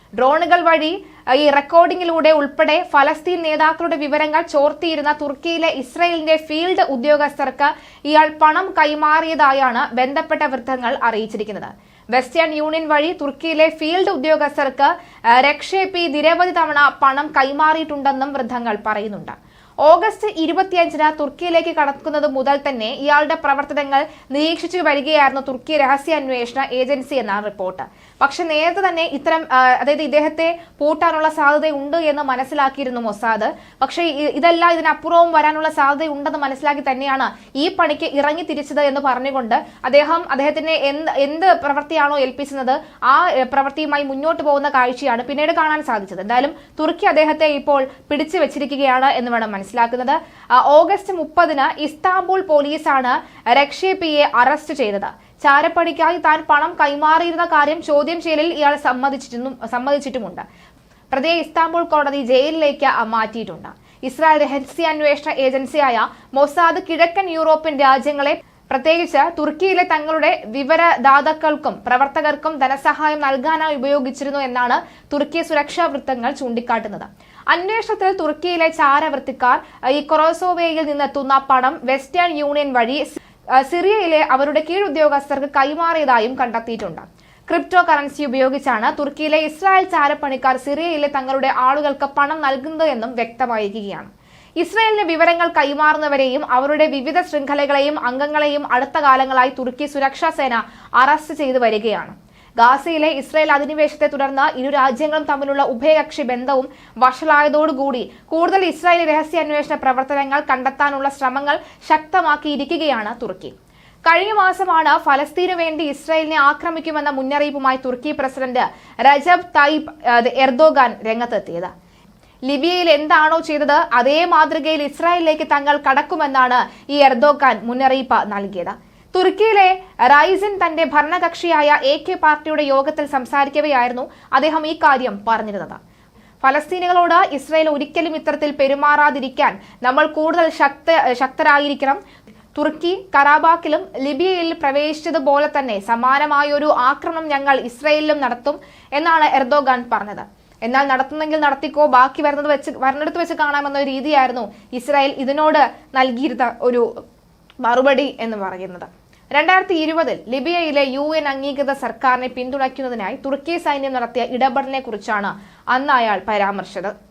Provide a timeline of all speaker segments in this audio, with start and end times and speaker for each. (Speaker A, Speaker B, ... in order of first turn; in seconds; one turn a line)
Speaker A: 0.2-60.4
Speaker A: 61.1-113.5
Speaker A: 114.1-121.7
Speaker A: 122.5-135.8
Speaker A: 136.4-142.0
Speaker A: 142.5-156.8
Speaker A: 157.6-166.9